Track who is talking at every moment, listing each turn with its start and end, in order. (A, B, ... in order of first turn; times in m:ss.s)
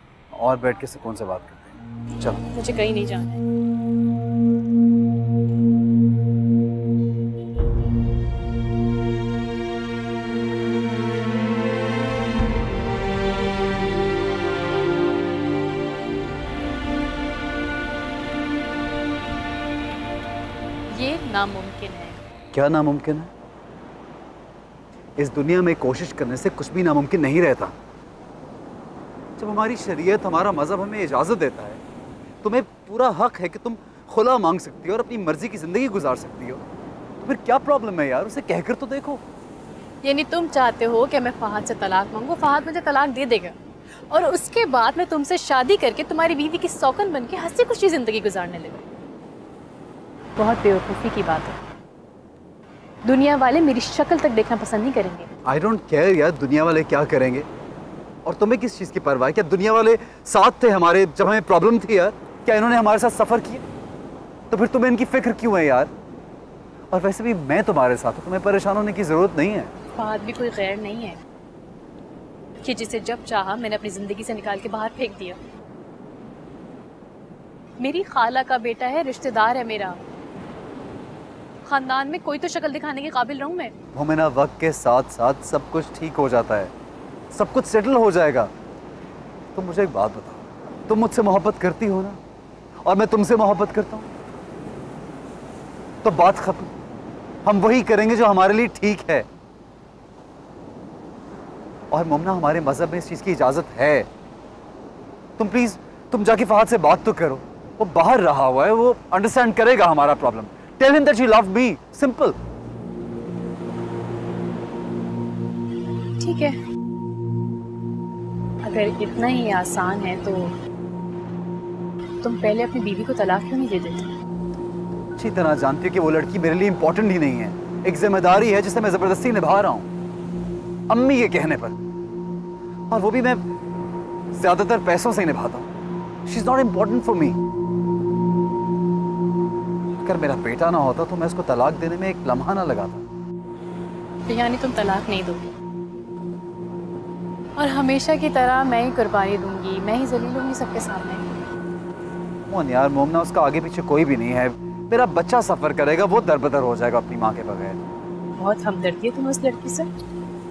0:00.4-0:02.4 A
0:02.5-0:03.4 B
0:20.9-0:22.2 B
0:22.5-0:23.3 A
0:25.2-0:27.7 A
0:29.4-0:31.8 A
0:32.4-0:36.6 A
0:37.2-0:39.2 A
0:40.0-0:43.6 B
0:44.1-0:48.9 B
0:50.4-0:51.6 B
0:53.0-0:55.3 B
0:55.5-0:57.5 A
0:58.2-1:03.6 A
1:04.5-1:05.9 A
1:06.9-1:09.7 A
1:09.9-1:11.2 B
1:12.6-1:15.4 B
1:17.8-1:20.0 B
1:21.7-1:23.7 B
1:24.0-1:26.7 A
1:27.3-1:28.5 A
1:29.6-1:32.2 A
1:32.8-1:34.1 A
1:36.0-1:36.7 A
1:37.4-1:39.2 A
1:41.9-1:44.1 A
1:45.4-1:52.4 A
1:56.2-1:56.6 B
1:58.6-2:00.5 B
2:02.2-2:04.1 B
2:05.2-2:09.9 A
2:10.9-2:11.8 A
2:12.9-2:13.4 A
2:14.3-2:15.7 A
2:16.3-2:17.4 A
2:20.0-2:23.0 A
2:24.3-2:25.5 B
2:27.6-2:31.2 B
2:32.5-2:37.8 A
2:38.4-2:39.9 B